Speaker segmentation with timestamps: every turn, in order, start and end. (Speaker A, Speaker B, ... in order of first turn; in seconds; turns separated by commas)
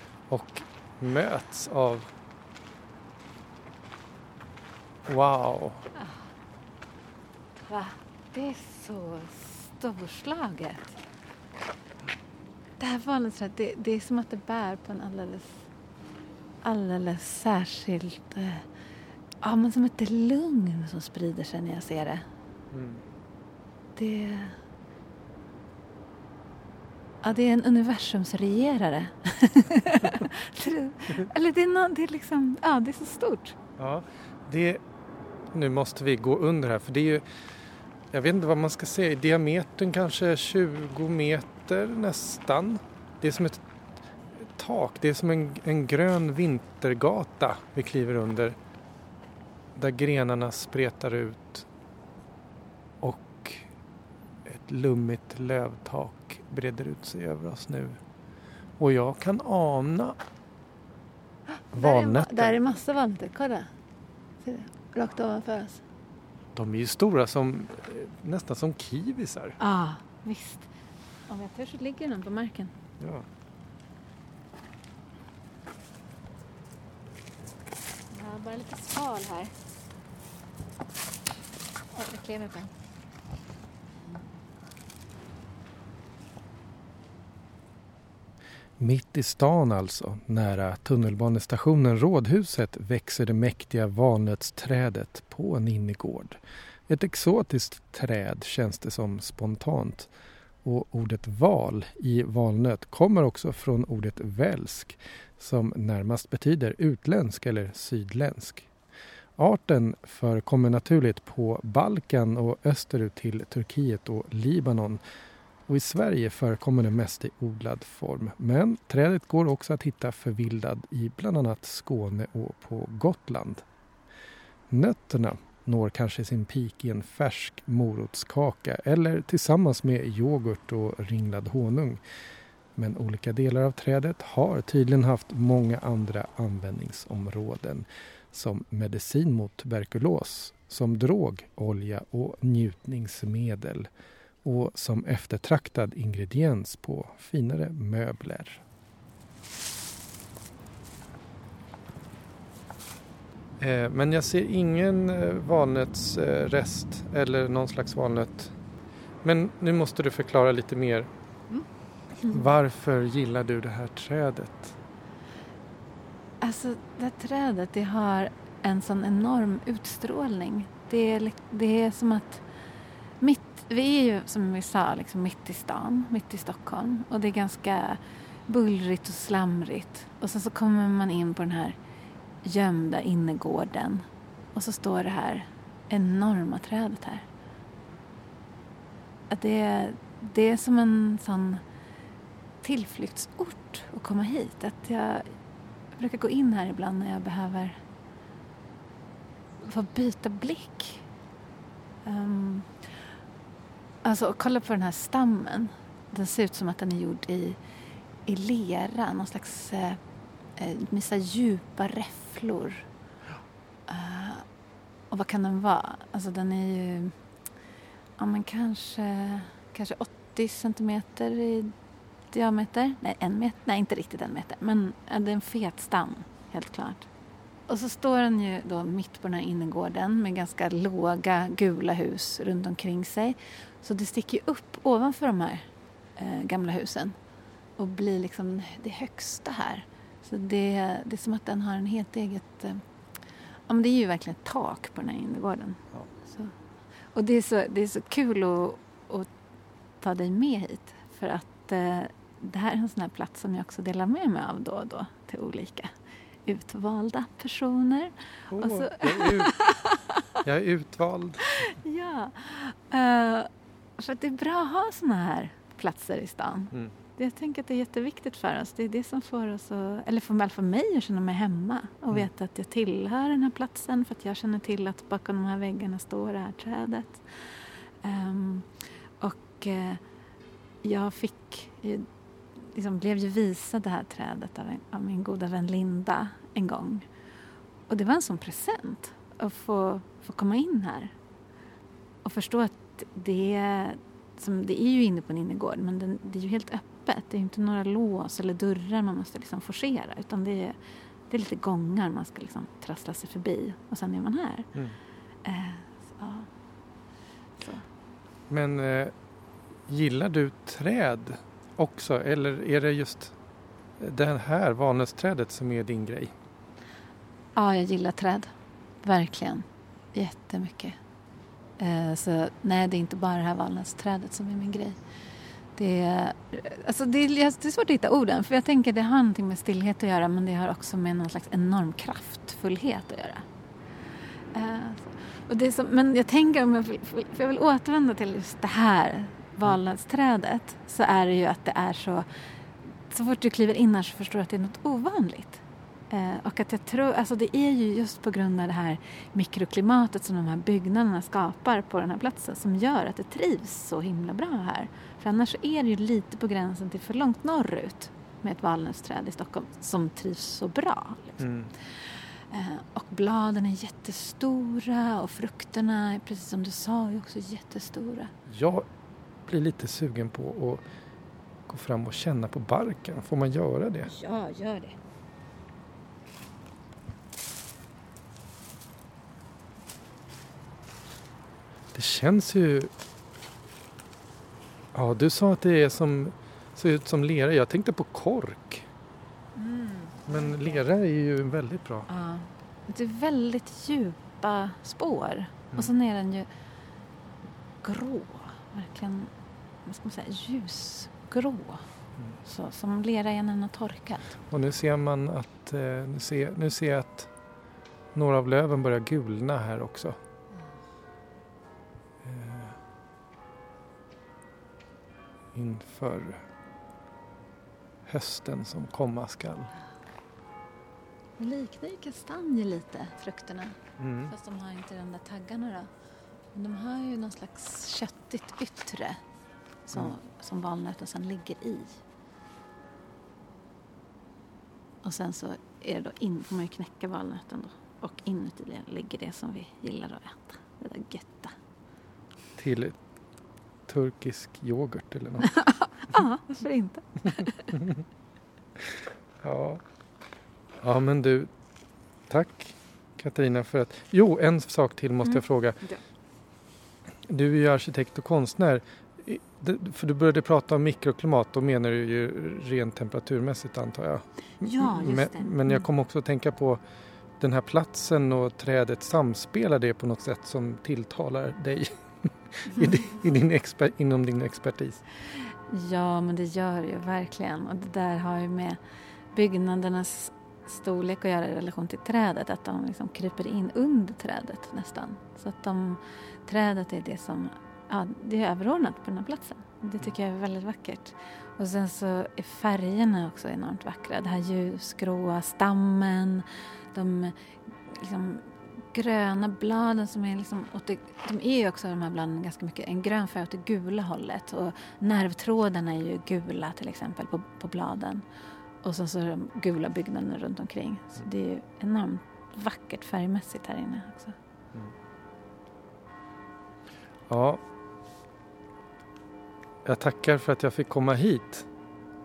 Speaker A: 0.3-2.1, Speaker A: 5.1-5.9, Speaker B: 5.9-6.2, Speaker B: 7.6-11.0, Speaker B: 12.8-15.6, Speaker B: 16.6-18.7, Speaker B: 19.4-22.2, Speaker A: 22.7-23.0, Speaker B: 23.9-24.6, Speaker B: 27.2-33.6, Speaker A: 33.8-34.8, Speaker A: 35.5-37.2, Speaker A: 38.1-43.6, Speaker A: 44.4-48.5, Speaker A: 49.7-51.7, Speaker A: 53.0-53.7, Speaker A: 54.4-58.0, Speaker A: 58.8-60.2, Speaker B: 61.5-63.7, Speaker A: 61.7-62.6, Speaker B: 64.4-65.8, Speaker A: 66.5-69.6, Speaker B: 69.6-70.7, Speaker B: 71.3-72.7, Speaker A: 73.0-73.2, Speaker B: 78.1-79.5, Speaker B: 81.9-82.7, Speaker A: 88.8-100.1, Speaker A: 100.6-108.7, Speaker A: 109.4-115.0, Speaker A: 115.7-123.6, Speaker A: 124.7-132.0, Speaker A: 132.8-143.9, Speaker A: 144.4-148.6, Speaker A: 153.6-158.5, Speaker A: 159.2-161.1, Speaker A: 162.2-164.8, Speaker B: 166.4-172.4, Speaker B: 173.2-181.7, Speaker B: 182.4-184.0, Speaker B: 184.5-187.2, Speaker B: 189.3-191.6, Speaker B: 192.6-195.3, Speaker B: 195.9-197.8, Speaker B: 199.6-201.0, Speaker B: 202.0-202.7, Speaker B: 204.0-207.6, Speaker B: 208.2-210.0, Speaker B: 210.6-212.8, Speaker B: 213.9-214.4, Speaker B: 215.1-217.2, Speaker B: 218.2-221.7, Speaker B: 222.3-227.1, Speaker B: 227.7-237.1, Speaker B: 237.8-242.8, Speaker B: 243.7-246.5, Speaker B: 247.1-249.3, Speaker B: 250.0-255.9, Speaker B: 256.4-260.4, Speaker A: 258.5-259.6, Speaker A: 260.4-261.6, Speaker B: 261.5-278.7, Speaker B: 279.2-280.0, Speaker B: 280.8-287.1, Speaker B: 287.9-291.1, Speaker B: 292.2-300.7, Speaker B: 301.3-304.7, Speaker B: 305.4-306.5, Speaker B: 307.6-307.8, Speaker A: 308.5-309.1, Speaker A: 309.9-313.3, Speaker A: 314.0-316.3, Speaker B: 317.5-318.5, Speaker B: 319.0-321.0, Speaker B: 321.8-325.0, Speaker B: 325.8-333.4, Speaker B: 334.5-342.2, Speaker B: 343.1-368.3, Speaker A: 361.4-361.7, Speaker A: 368.5-368.8, Speaker A: 369.4-370.8, Speaker A: 371.7-374.1, Speaker B: 374.1-374.9, Speaker A: 381.9-382.9, Speaker A: 384.9-388.9, Speaker B: 389.6-390.8, Speaker A: 390.3-392.1, Speaker B: 392.1-396.5, Speaker B: 397.8-399.3, Speaker B: 399.9-401.8, Speaker B: 402.4-404.4, Speaker A: 404.5-407.3, Speaker A: 408.1-410.2, Speaker A: 412.2-412.8, Speaker A: 415.5-416.4, Speaker A: 418.1-419.7, Speaker B: 421.4-425.9, Speaker A: 424.0-424.3, Speaker B: 426.5-429.2, Speaker B: 429.9-432.0, Speaker B: 435.0-441.5, Speaker A: 442.6-443.0, Speaker A: 443.9-445.5, Speaker B: 445.5-447.8, Speaker A: 449.4-449.8, Speaker A: 450.8-451.5, Speaker A: 452.3-455.8, Speaker B: 455.3-456.0, Speaker A: 457.3-466.8, Speaker B: 464.6-465.8, Speaker A: 467.4-471.9, Speaker A: 472.4-475.0, Speaker B: 475.7-478.8, Speaker B: 479.3-497.3, Speaker B: 497.9-508.2, Speaker B: 508.8-514.4, Speaker A: 517.3-517.6, Speaker A: 519.8-521.7